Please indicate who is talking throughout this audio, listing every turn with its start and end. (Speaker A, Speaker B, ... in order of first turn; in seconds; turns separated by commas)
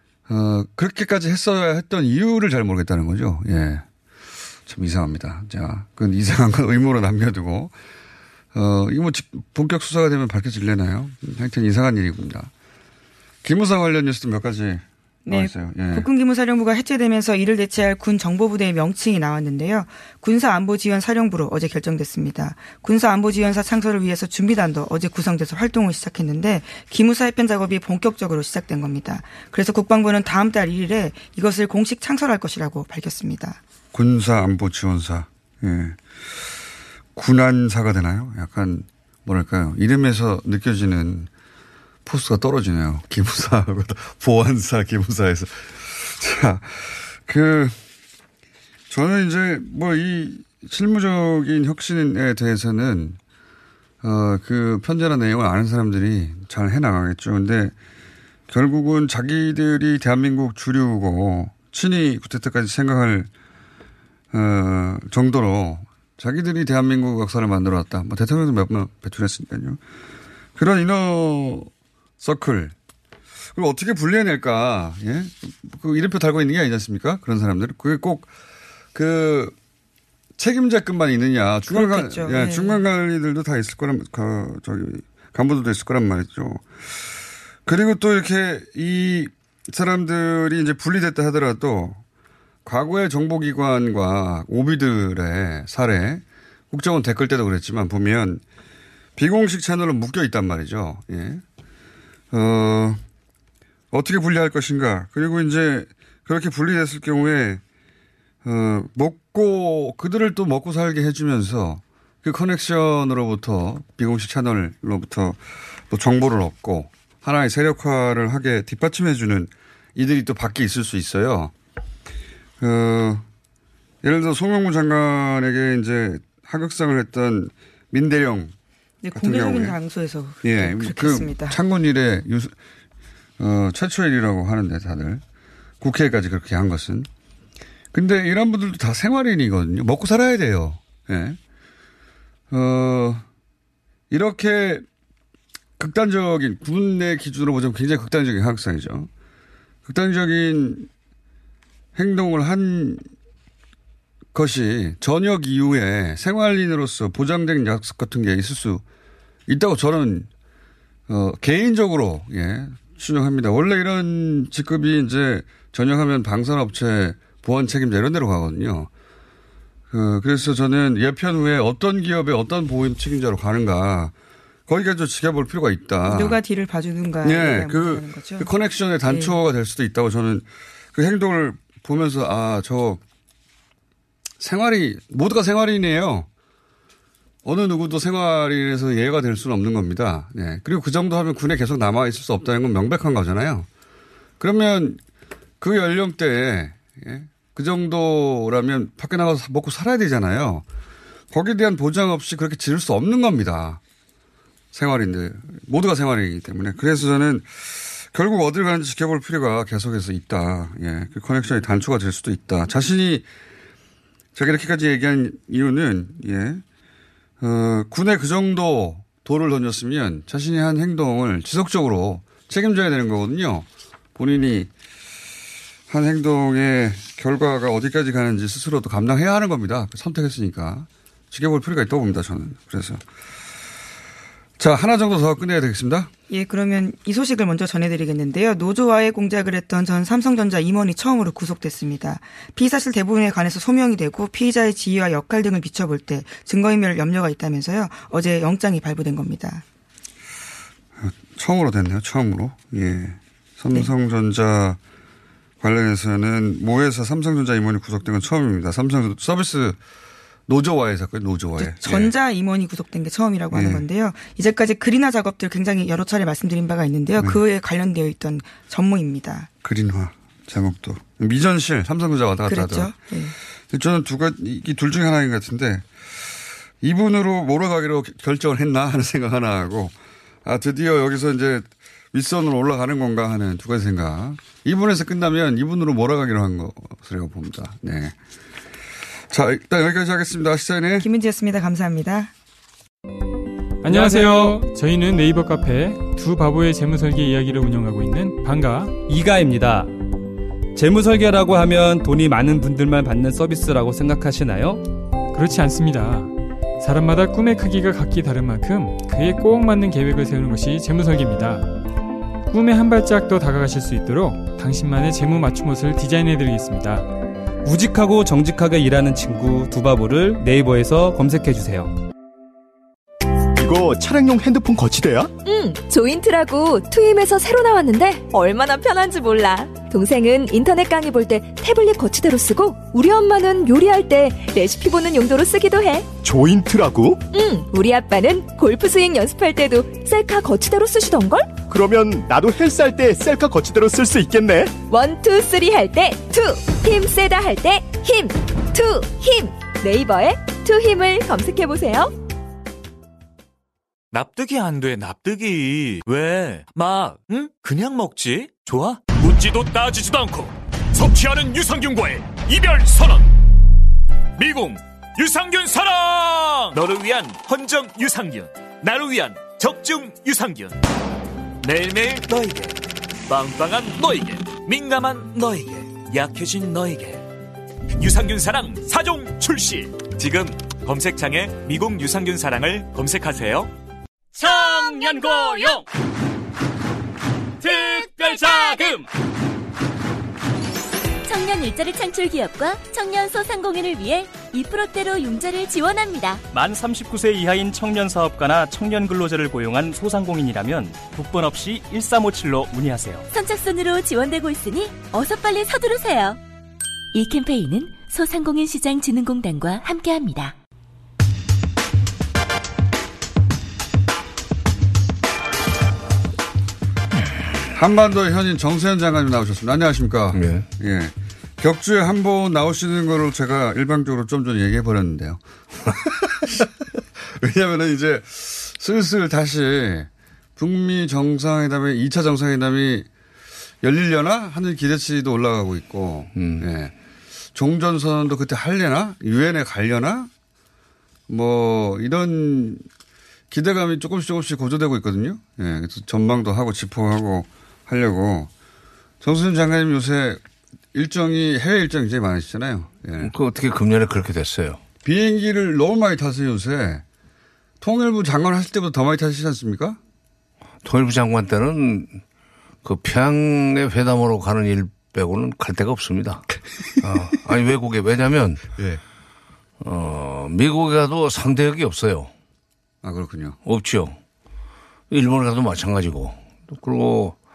Speaker A: 0.3-3.8, Speaker A: 4.7-7.7, Speaker A: 8.5-12.5, Speaker A: 13.4-16.1, Speaker B: 15.2-33.6, Speaker A: 33.9-36.0, Speaker A: 37.1-41.3, Speaker A: 42.0-47.8, Speaker A: 48.9-53.2, Speaker A: 54.0-57.7, Speaker A: 58.5-63.3, Speaker A: 64.3-69.8, Speaker A: 70.5-72.7, Speaker A: 73.5-78.3, Speaker A: 78.9-79.5, Speaker A: 80.4-86.7, Speaker B: 81.7-82.8, Speaker A: 87.7-92.0, Speaker A: 92.6-98.4, Speaker A: 99.2-101.4, Speaker A: 102.3-103.0, Speaker A: 103.9-107.6, Speaker A: 108.4-115.4, Speaker A: 115.9-121.5, Speaker A: 122.6-123.2, Speaker A: 124.0-128.5, Speaker B: 129.0-131.6, Speaker A: 129.1-129.8, Speaker A: 130.4-132.5, Speaker A: 133.4-135.2, Speaker A: 135.8-137.1, Speaker A: 137.9-141.4, Speaker A: 142.5-143.2, Speaker A: 144.1-144.8, Speaker A: 145.8-149.1, Speaker A: 149.8-150.9, Speaker A: 151.9-153.0, Speaker A: 154.3-158.8, Speaker A: 159.5-160.3, Speaker A: 161.1-168.9, Speaker A: 169.9-174.1, Speaker A: 174.7-176.4, Speaker B: 176.1-178.5, Speaker A: 177.2-183.0, Speaker B: 179.1-179.3, Speaker A: 184.4-186.3, Speaker A: 187.4-193.7, Speaker A: 194.4-195.0, Speaker A: 195.6-200.6, Speaker A: 201.3-203.8, Speaker A: 204.7-213.2, Speaker A: 214.3-216.6, Speaker A: 217.4-224.7, Speaker A: 225.9-233.0, Speaker A: 234.6-236.1, Speaker B: 236.3-249.6, Speaker A: 251.0-254.8, Speaker A: 255.6-259.8, Speaker A: 260.5-262.1, Speaker B: 261.6-269.5, Speaker A: 263.5-263.8, Speaker A: 269.6-272.9, Speaker B: 272.5-273.3, Speaker A: 273.7-275.9, Speaker A: 276.8-279.9, Speaker A: 280.4-288.1, Speaker A: 289.3-291.1, Speaker B: 291.0-292.3, Speaker C: 293.8-299.0, Speaker D: 293.9-294.6, Speaker D: 299.1-299.9, Speaker D: 300.7-304.8, Speaker C: 305.3-311.7, Speaker C: 312.5-317.1, Speaker D: 317.6-321.9, Speaker E: 323.5-325.3, Speaker F: 325.4-336.1, Speaker E: 336.2-337.2, Speaker F: 337.3-341.6, Speaker E: 341.7-344.8, Speaker F: 344.8-352.1, Speaker G: 354.1-363.3, Speaker G: 364.4-370.8, Speaker G: 371.6-377.2, Speaker G: 378.0-383.7, Speaker G: 384.4-385.6, Speaker H: 387.8-388.8, Speaker H: 391.2-396.4, Speaker I: 396.5-403.3, Speaker H: 403.3-406.4, Speaker H: 407.1-410.5, Speaker A: 417.7-433.1, Speaker J: 420.3-420.6, Speaker A: 433.8-436.9, Speaker J: 436.3-436.7, Speaker A: 437.5-440.3, Speaker A: 441.3-442.8, Speaker A: 443.5-448.5, Speaker A: 449.2-450.4, Speaker A: 450.9-453.3, Speaker J: 453.2-454.8, Speaker A: 455.0-457.0, Speaker A: 457.8-460.0, Speaker J: 460.8-462.2, Speaker J: 462.8-466.4, Speaker J: 467.0-468.7, Speaker A: 468.8-469.0, Speaker J: 469.8-472.3, Speaker A: 473.0-473.6, Speaker J: 473.6-474.2, Speaker J: 475.1-477.4